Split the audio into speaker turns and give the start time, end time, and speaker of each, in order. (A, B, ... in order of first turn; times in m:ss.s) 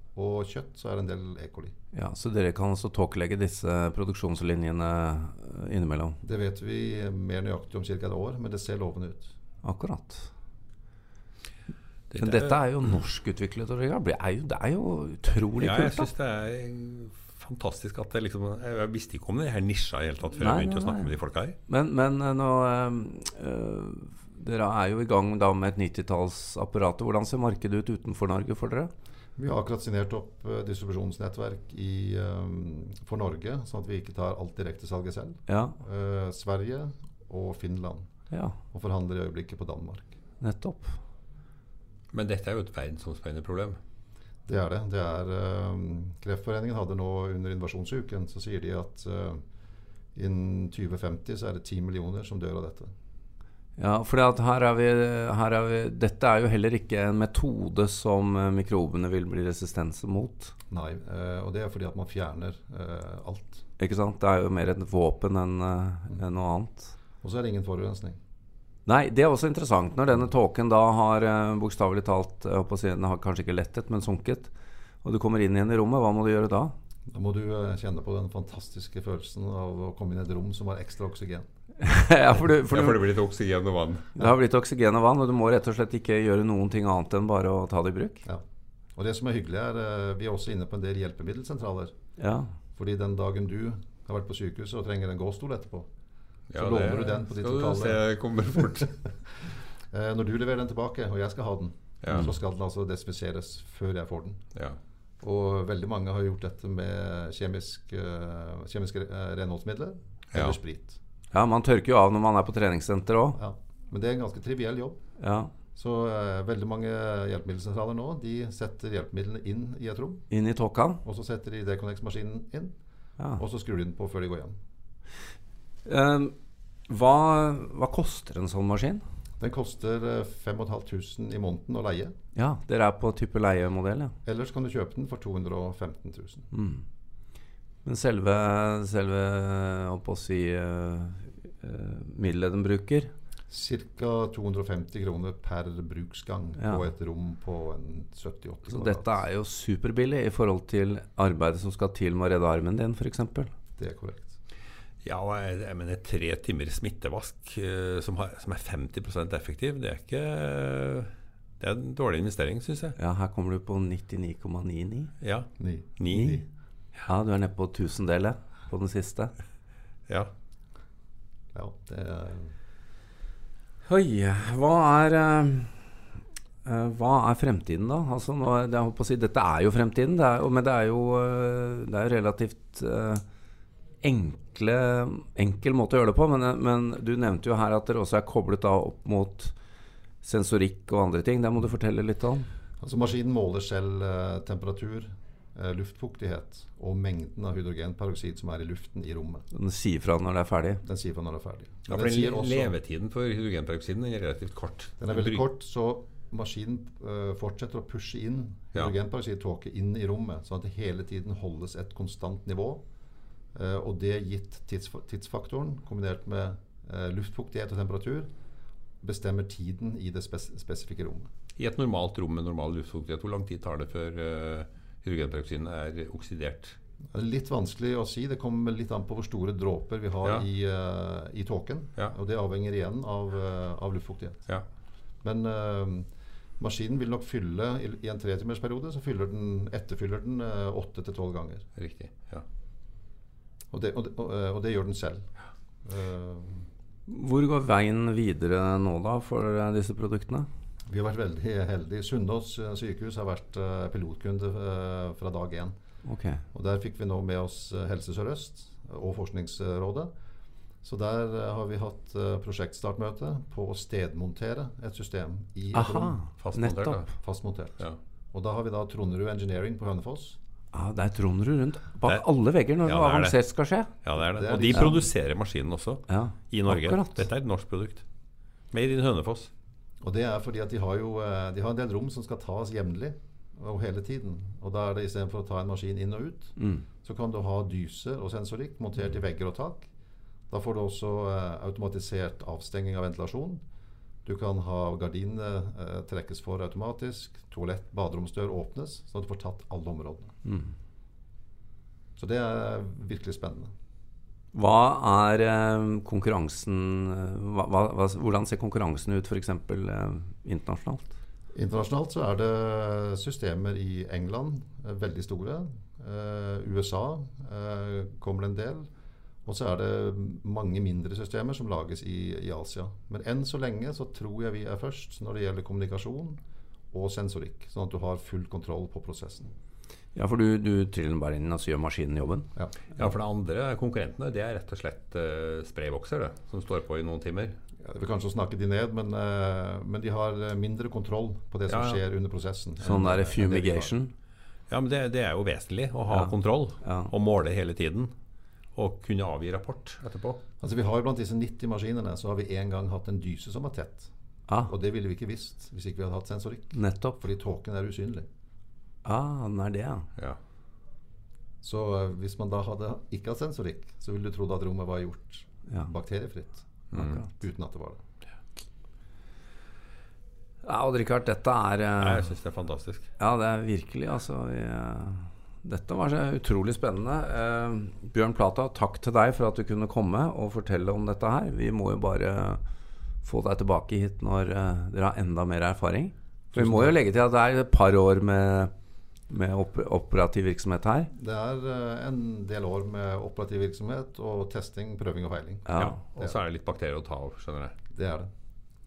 0:00.1-0:01.7 A
0:01.9-0:06.2 B
0:06.2-0:09.3 A
0:09.6-0:10.3 B
0:12.1-0:12.6 C
0:12.2-0:16.1 B
0:15.6-0:21.6 C
0:20.4-0:21.1 B
0:21.7-0:28.9 B
0:29.4-0:38.1 A
0:35.5-0:35.8 B
0:38.3-0:38.5 B
0:38.7-0:40.1 A
0:40.4-0:41.0 B
0:42.1-0:43.8 C
0:44.4-0:49.4 A
0:50.1-0:52.9 A
0:53.8-1:00.5 B
1:00.7-1:03.6 A
1:03.8-1:06.9 B
1:07.2-1:08.2 A
1:08.8-1:14.5 B
1:15.0-1:16.7 B
1:17.1-1:21.4 A
1:21.8-1:23.1 B
1:22.7-1:24.2 C
1:24.2-1:28.2 B
1:29.0-1:31.9 A
1:32.2-1:32.5 B
1:32.8-1:35.9 A
1:36.5-1:39.0 C
1:36.6-1:38.0 A
1:39.9-1:44.4 A
1:42.0-1:42.3 C
1:45.2-1:51.0 A
1:50.3-1:50.6 C
1:51.3-1:53.4 B
1:53.4-1:55.0 A
1:55.2-1:55.5 B
1:55.8-2:00.2 A
2:00.3-2:01.0 B
2:01.0-2:02.7 A
2:03.4-2:04.6 A
2:05.8-2:06.3 B
2:06.9-2:09.0 B
2:09.4-2:12.1 A
2:12.3-2:14.1 B
2:14.2-2:16.5 A
2:16.5-2:16.8 B
2:17.8-2:23.1 B
2:23.5-2:29.2 A
2:26.6-2:26.8 B
2:28.6-2:33.5 B
2:33.8-2:34.3 A
2:35.0-2:43.0 C
2:43.0-2:45.1 B
2:45.2-2:46.4 C
2:45.6-2:46.4 A
2:46.1-2:46.4 B
2:47.0-2:49.3 B
2:51.5-2:52.5 A
2:53.9-2:55.8 B
2:56.6-3:03.2 B
3:04.0-3:09.5 B
3:10.2-3:12.4 B
3:12.8-3:19.4 A
3:19.5-3:20.8 B
3:20.8-3:22.7 A
3:21.9-3:25.4 C
3:25.0-3:32.8 A
3:33.5-3:38.3 A
3:39.0-3:41.3 A
3:41.6-3:46.8 C
3:47.1-3:54.4 A
3:55.2-3:56.1 A
3:56.6-4:01.6 A
4:01.8-4:02.4 C
4:03.7-4:05.2 A
4:05.8-4:06.6 A
4:07.1-4:10.5 B
4:10.9-4:15.7 A
4:16.0-4:16.4 B
4:16.5-4:20.1 A
4:20.8-4:26.2 A
4:25.7-4:27.0 B
4:26.4-4:27.1 C
4:27.1-4:30.4 A
4:30.7-4:33.9 B
4:32.8-4:33.4 C
4:34.0-4:38.0 C
4:34.3-4:35.0 A
4:36.1-4:37.2 B
4:38.7-4:39.5 C
4:40.0-4:49.9 A
4:46.6-4:46.8 B
4:50.5-4:53.6 A
4:54.2-5:00.3 A
5:00.4-5:00.7 B
5:02.2-5:03.7 A
5:04.5-5:11.2 B
5:11.5-5:18.9 A
5:19.4-5:26.4 A
5:26.9-5:29.5 A
5:30.1-5:32.5 B
5:32.9-5:37.6 C
5:37.8-5:44.0 A
5:41.7-5:42.0 C
5:42.8-5:44.1 B
5:44.7-5:48.1 C
5:46.1-5:47.1 B
5:48.7-5:50.4 C
5:50.6-5:54.1 A
5:54.5-5:54.7 B
5:54.7-5:58.3 A
5:56.7-5:57.2 B
5:59.0-6:00.0 B
6:01.6-6:06.6 A
6:06.9-6:07.2 C
6:06.9-6:07.3 B
6:07.2-6:08.0 A
6:10.6-6:12.2 B
6:12.0-6:13.1 C
6:13.2-6:22.6 B
6:23.2-6:28.7 B
6:26.5-6:27.0 A
6:29.3-6:31.1 B
6:31.1-6:36.4 A
6:35.7-6:36.0 B
6:35.8-6:37.8 C
6:37.9-6:38.3 A